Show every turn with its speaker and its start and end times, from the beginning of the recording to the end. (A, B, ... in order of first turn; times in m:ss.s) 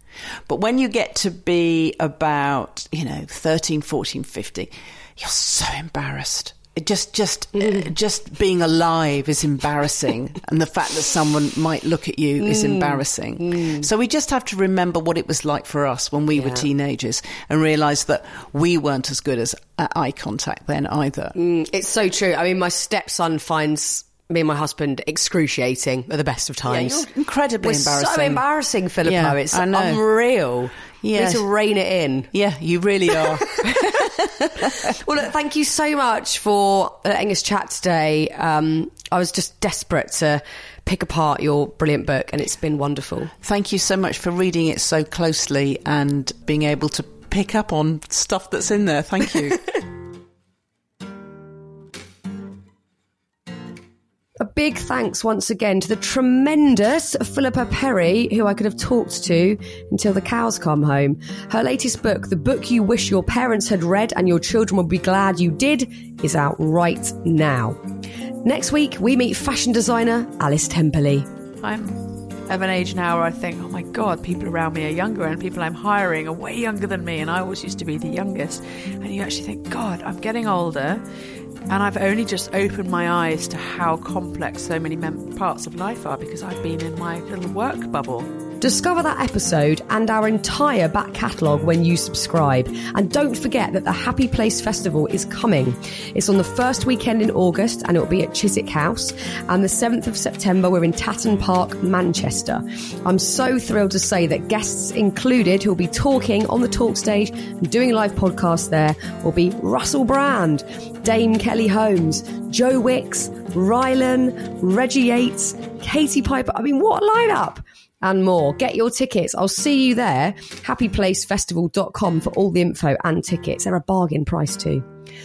0:00.5-0:21.3 A
0:12.4-0:13.8 B
0:16.3-0:16.6 B
0:21.3-0:27.0 B
0:26.6-0:28.4 A
0:27.6-0:32.3 B
0:29.0-0:30.0 A
0:31.0-0:31.4 A
0:32.3-0:35.0 A
0:34.6-0:43.3 B
0:43.4-0:49.6 A
0:54.4-1:07.8 B
1:08.4-1:11.3 B
1:11.6-1:21.0 C
1:21.7-1:28.3 C
1:28.6-2:04.8 B